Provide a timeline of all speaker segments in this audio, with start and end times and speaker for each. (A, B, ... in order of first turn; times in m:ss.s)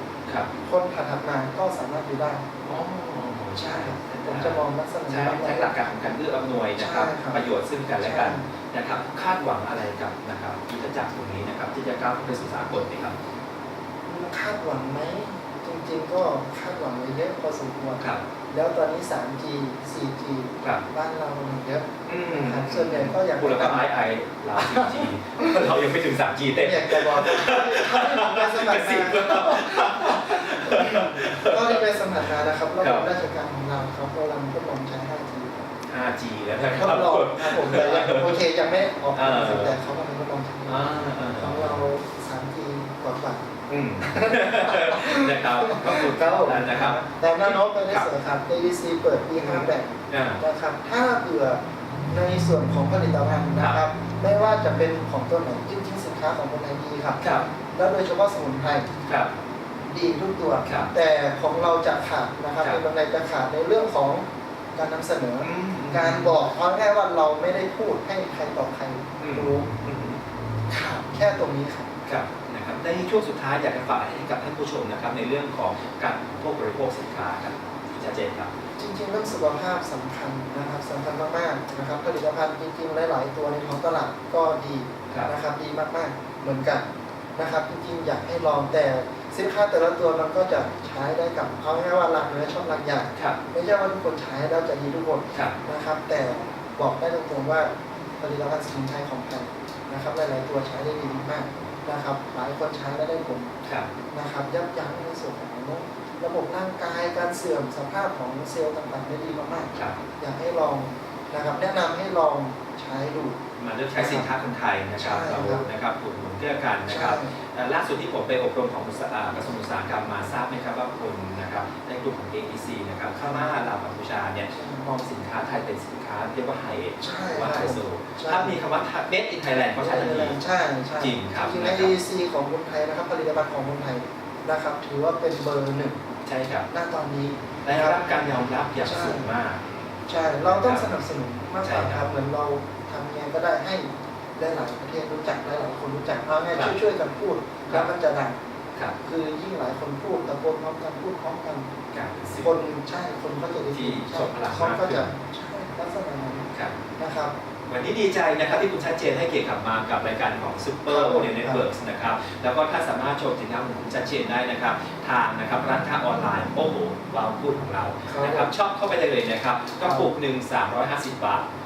0:00.6-0:02.5 A
0:02.7-0:13.2 B
0:03.6-0:05.7 A
0:06.8-0:07.4 A
0:08.0-0:08.5 A
0:14.1-0:23.9 A
0:22.1-0:31.9 B
0:24.5-0:25.8 A
0:26.5-0:35.7 A
0:32.8-0:33.1 B
0:35.9-0:38.4 B
0:36.7-0:40.9 A
0:39.2-0:39.8 B
0:40.7-0:41.7 B
0:41.4-0:58.9 A
0:43.7-0:48.1 B
0:49.4-0:50.4 B
0:57.2-0:57.5 B
0:59.1-0:59.3 B
0:59.9-1:09.7 A
1:00.6-1:00.9 B
1:05.4-1:06.4 B
1:09.2-1:10.2 B
1:10.7-1:11.9 A
1:12.1-1:18.5 B
1:18.8-1:43.5 A
1:44.1-1:53.4 A
1:53.6-2:10.4 B
1:54.0-1:54.3 A
1:55.0-1:55.7 A
1:56.9-1:57.3 A
2:04.5-2:04.9 A
2:07.0-2:08.6 A
2:09.8-2:16.0 A
2:11.0-2:12.0 B
2:16.3-2:16.7 B
2:16.7-2:19.3 A
2:17.6-2:19.6 B
2:20.1-2:28.4 A
2:20.4-2:20.9 B
2:21.6-2:22.1 B
2:29.0-2:31.7 A
2:31.9-2:32.5 B
2:32.4-2:37.4 A
2:33.7-2:35.1 B
2:37.7-2:51.5 B
2:40.9-2:41.6 A
2:48.1-2:48.5 A
2:49.8-2:50.1 A